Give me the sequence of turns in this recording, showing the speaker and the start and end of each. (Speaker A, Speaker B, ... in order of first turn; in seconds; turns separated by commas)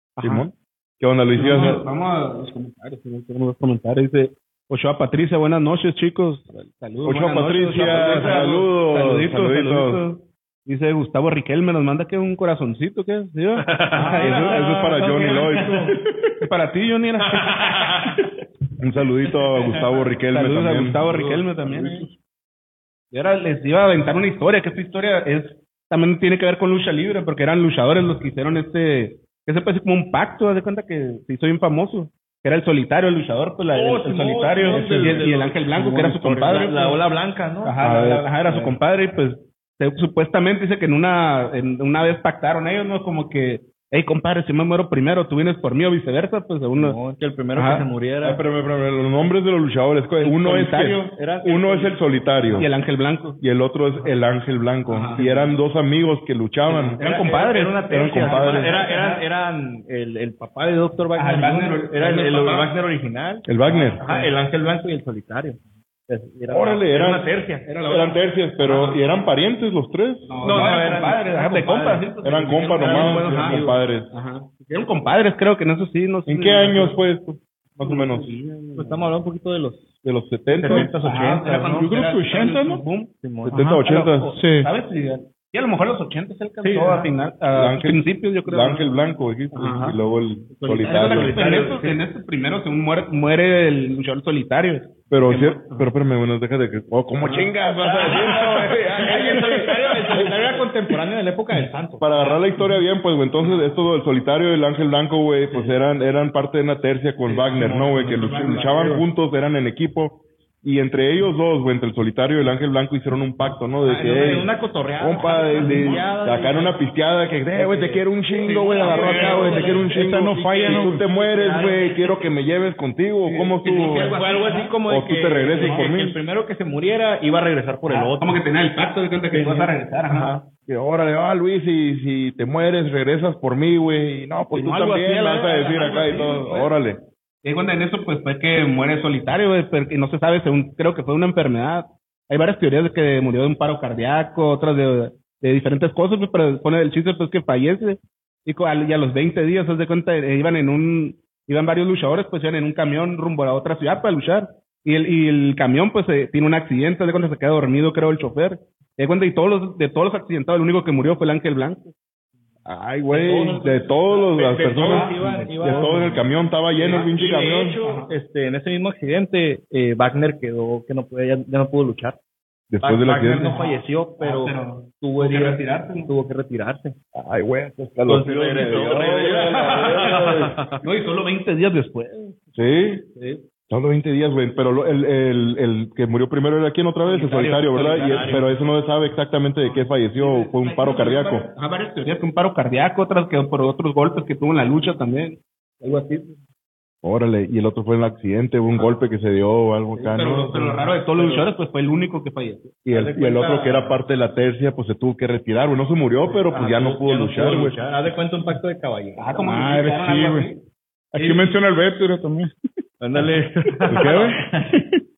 Speaker A: 0.2-0.5, Speaker B: 0.2-1.8, Speaker C: 1.3-15.8, Speaker B: 7.0-10.0, Speaker D: 7.8-8.5, Speaker D: 13.6-15.9, Speaker B: 14.2-15.9, Speaker C: 16.4-18.2, Speaker D: 17.4-18.0, Speaker B: 18.8-21.1, Speaker C: 20.3-22.1, Speaker D: 21.0-22.1, Speaker C: 23.1-37.0, Speaker D: 33.7-38.8, Speaker A: 34.7-35.2, Speaker C: 37.6-47.0, Speaker B: 37.8-38.2, Speaker D: 46.8-48.4, Speaker C: 47.5-47.9, Speaker B: 48.2-52.7, Speaker C: 50.2-51.1, Speaker D: 51.1-52.7, Speaker C: 52.6-53.4, Speaker B: 53.4-57.0, Speaker C: 54.9-55.2, Speaker D: 55.2-55.6, Speaker D: 56.7-67.7, Speaker C: 57.0-59.2, Speaker B: 57.9-58.7, Speaker C: 61.1-62.7, Speaker B: 63.5-64.0, Speaker C: 63.7-64.3, Speaker B: 66.5-67.3, Speaker C: 67.7-69.0, Speaker B: 67.8-70.8, Speaker C: 70.3-77.0, Speaker D: 70.4-72.1, Speaker B: 72.2-74.1, Speaker D: 72.7-73.8, Speaker B: 76.3-78.3, Speaker C: 77.8-79.1, Speaker D: 78.8-79.9, Speaker B: 80.0-80.9, Speaker D: 80.5-81.9, Speaker C: 80.7-83.1, Speaker A: 81.8-82.8, Speaker D: 83.2-83.6, Speaker B: 83.4-84.4, Speaker A: 83.5-84.7, Speaker C: 83.8-88.9, Speaker D: 86.6-87.1, Speaker B: 87.5-91.6, Speaker C: 89.5-90.0, Speaker C: 90.6-95.6, Speaker D: 90.7-92.0, Speaker B: 95.1-100.4, Speaker C: 97.2-97.5, Speaker D: 97.8-102.1, Speaker B: 102.0-114.5, Speaker C: 103.4-103.8, Speaker C: 107.3-109.0, Speaker D: 113.8-116.8, Speaker B: 115.0-124.2, Speaker C: 115.6-115.9, Speaker A: 115.6-115.9, Speaker D: 117.5-122.3, Speaker C: 118.5-119.9, Speaker A: 118.9-121.0, Speaker D: 123.3-128.4, Speaker C: 123.6-124.8, Speaker B: 124.9-126.2, Speaker C: 125.6-125.8, Speaker C: 127.9-130.4, Speaker D: 129.3-130.4, Speaker B: 130.7-137.0, Speaker C: 134.5-136.7, Speaker C: 137.4-161.9, Speaker B: 162.7-167.8, Speaker D: 163.1-166.3, Speaker C: 164.7-166.2, Speaker C: 166.8-168.1, Speaker D: 166.9-172.2, Speaker B: 172.7-173.5, Speaker D: 172.8-177.0, Speaker C: 173.2-176.1, Speaker B: 177.1-180.6, Speaker D: 178.1-180.8, Speaker C: 178.7-179.2, Speaker C: 179.8-182.4, Speaker B: 182.6-183.1, Speaker B: 183.7-191.5, Speaker C: 187.1-188.4, Speaker D: 187.3-188.5, Speaker C: 189.6-196.4, Speaker B: 197.0-200.8, Speaker C: 200.0-202.8, Speaker D: 200.8-201.4, Speaker B: 202.9-207.8, Speaker D: 202.9-204.0, Speaker D: 206.2-209.4, Speaker C: 209.2-210.6, Speaker A: 209.4-210.5, Speaker A: 211.1-212.5, Speaker C: 211.2-211.5, Speaker D: 213.0-214.8, Speaker A: 213.8-215.0, Speaker B: 213.9-214.4